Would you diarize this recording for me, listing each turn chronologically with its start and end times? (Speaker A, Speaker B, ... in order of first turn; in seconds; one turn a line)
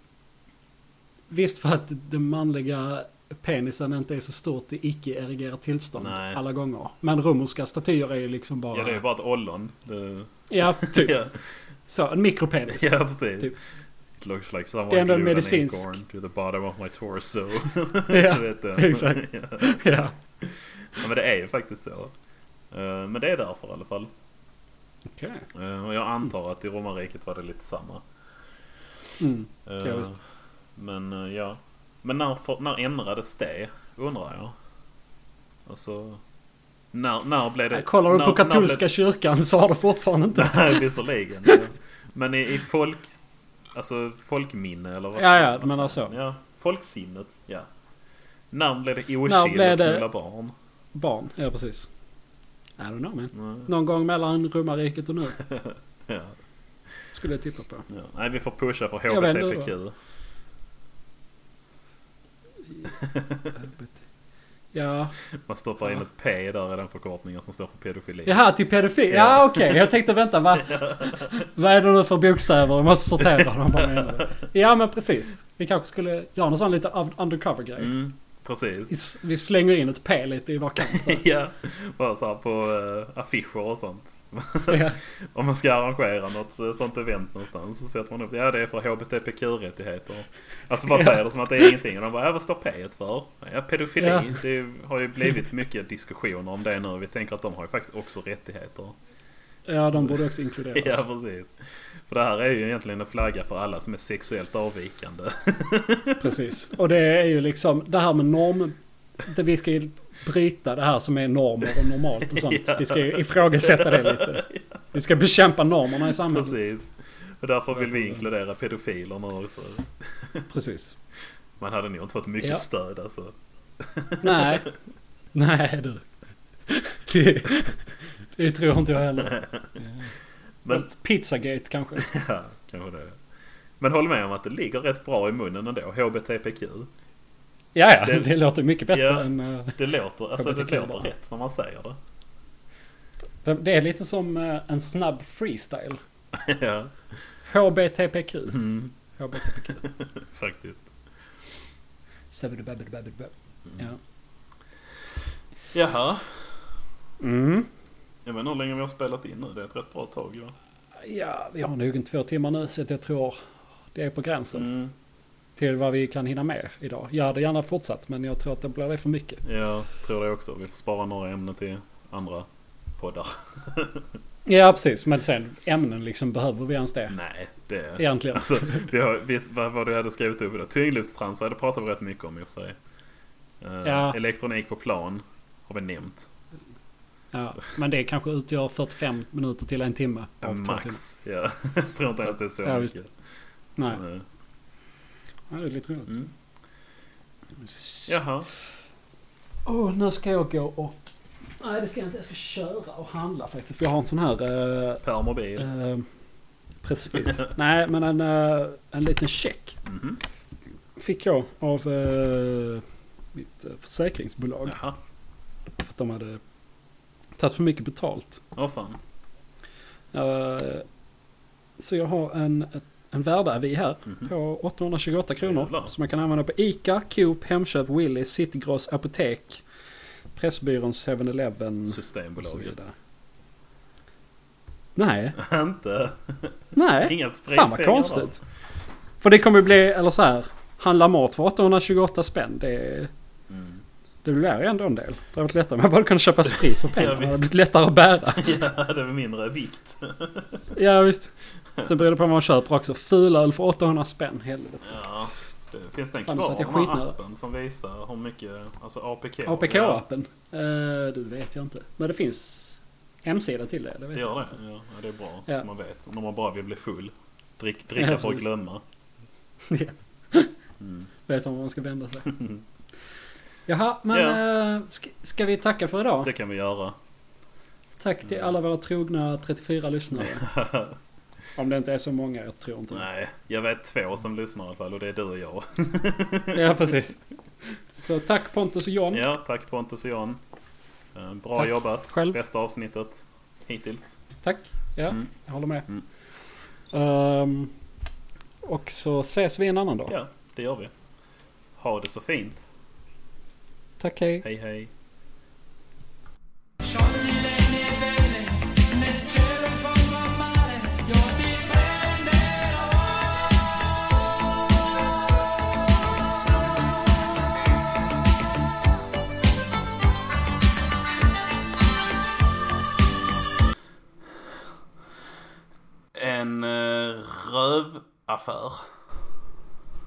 Speaker A: 1.3-9.0
Speaker B: 6.0-6.4
Speaker B: 8.7-11.3
Speaker A: 10.5-11.2
Speaker A: 11.9-13.5
Speaker B: 12.7-13.6
Speaker B: 14.2-19.8
Speaker A: 14.9-16.0
Speaker A: 18.1-20.1
Speaker B: 20.4-22.1
Speaker B: 22.7-24.1
Speaker A: 25.1-25.5
Speaker B: 25.5-28.0
Speaker A: 29.2-30.2
Speaker B: 29.7-30.2
Speaker B: 30.8-34.5
Speaker B: 35.7-36.2
Speaker B: 36.9-38.8
Speaker A: 37.7-40.9
Speaker B: 40.4-43.2
Speaker B: 43.7-47.7
Speaker A: 45.2-46.1
Speaker B: 48.5-50.5
Speaker A: 49.2-50.1
Speaker A: 50.9-51.9
Speaker A: 52.8-55.4
Speaker B: 53.3-53.7
Speaker B: 55.4-56.4
Speaker A: 57.1-57.9
Speaker B: 57.9-59.9
Speaker A: 59.1-59.7
Speaker B: 63.0-63.5
Speaker A: 63.6-64.0
Speaker A: 64.7-65.1
Speaker B: 65.5-68.4
Speaker A: 68.3-77.9
Speaker B: 69.1-69.9
Speaker B: 70.6-71.5
Speaker B: 73.2-74.2
Speaker B: 77.8-78.9
Speaker A: 78.9-81.2
Speaker B: 80.8-99.0
Speaker A: 84.7-85.0
Speaker A: 94.0-94.4
Speaker A: 99.7-101.0
Speaker B: 100.0-101.5
Speaker B: 102.1-106.3
Speaker A: 106.2-116.6
Speaker B: 112.3-114.6
Speaker B: 116.1-120.5
Speaker A: 117.7-118.2
Speaker A: 120.5-120.9
Speaker B: 121.6-124.7
Speaker A: 124.2-124.7
Speaker A: 125.3-126.0
Speaker A: 126.7-127.8
Speaker A: 128.4-130.1
Speaker B: 129.2-129.8
Speaker A: 130.7-132.1
Speaker B: 132.0-133.2
Speaker B: 133.8-136.9
Speaker A: 137.8-139.8
Speaker B: 138.0-138.3
Speaker B: 138.9-142.0
Speaker A: 140.4-141.1
Speaker A: 143.4-146.0
Speaker B: 146.3-146.9
Speaker A: 147.5-149.8
Speaker B: 148.5-148.9
Speaker B: 149.8-150.9
Speaker A: 152.3-154.0
Speaker B: 155.7-156.5
Speaker A: 157.2-157.7
Speaker B: 158.2-160.6
Speaker A: 161.0-163.4
Speaker A: 163.9-164.7
Speaker B: 164.5-164.9
Speaker A: 165.6-169.4
Speaker B: 169.4-172.5
Speaker B: 173.0-174.1
Speaker A: 174.5-177.2
Speaker B: 177.1-182.8
Speaker A: 178.0-178.9
Speaker B: 183.6-186.3
Speaker A: 183.8-184.2
Speaker A: 187.3-191.0
Speaker B: 190.4-193.1
Speaker A: 192.6-192.9
Speaker A: 193.8-194.0
Speaker B: 193.9-194.2
Speaker A: 195.5-196.2
Speaker A: 197.6-198.1
Speaker B: 198.1-198.5
Speaker A: 199.7-205.0
Speaker B: 205.0-205.7
Speaker A: 205.6-206.1
Speaker A: 206.8-209.8
Speaker B: 209.9-210.2
Speaker A: 211.0-214.8
Speaker B: 214.7-215.0
Speaker A: 215.8-216.4
Speaker A: 217.4-218.4
Speaker B: 218.6-219.0
Speaker A: 220.1-220.8
Speaker A: 221.8-229.6
Speaker B: 225.4-225.9
Speaker A: 230.3-232.9
Speaker B: 231.9-232.7
Speaker A: 235.0-235.4
Speaker B: 235.4-238.4
Speaker A: 236.8-238.4
Speaker A: 239.2-243.1
Speaker B: 243.5-243.8
Speaker A: 244.2-248.5
Speaker B: 246.8-247.5
Speaker B: 248.4-250.6
Speaker A: 250.7-255.0
Speaker B: 254.8-260.0
Speaker A: 256.3-257.1
Speaker A: 259.5-264.6
Speaker B: 264.1-268.8
Speaker A: 268.0-268.4
Speaker A: 269.7-270.5
Speaker B: 270.8-271.1
Speaker A: 271.3-272.4
Speaker B: 272.3-272.6
Speaker A: 273.7-276.3
Speaker B: 274.1-274.4
Speaker B: 276.2-277.0
Speaker A: 278.0-280.5
Speaker B: 280.2-281.0
Speaker A: 281.6-283.1
Speaker B: 282.9-286.9
Speaker A: 286.5-287.2
Speaker A: 288.0-289.2
Speaker B: 289.1-290.4
Speaker B: 291.1-294.2
Speaker A: 291.6-292.4
Speaker A: 294.4-295.9
Speaker A: 296.9-297.7
Speaker A: 298.6-300.1
Speaker B: 300.1-300.9
Speaker B: 301.8-302.6
Speaker A: 304.0-304.4
Speaker B: 304.4-304.9
Speaker C: 306.8-313.6
Speaker B: 326.1-328.9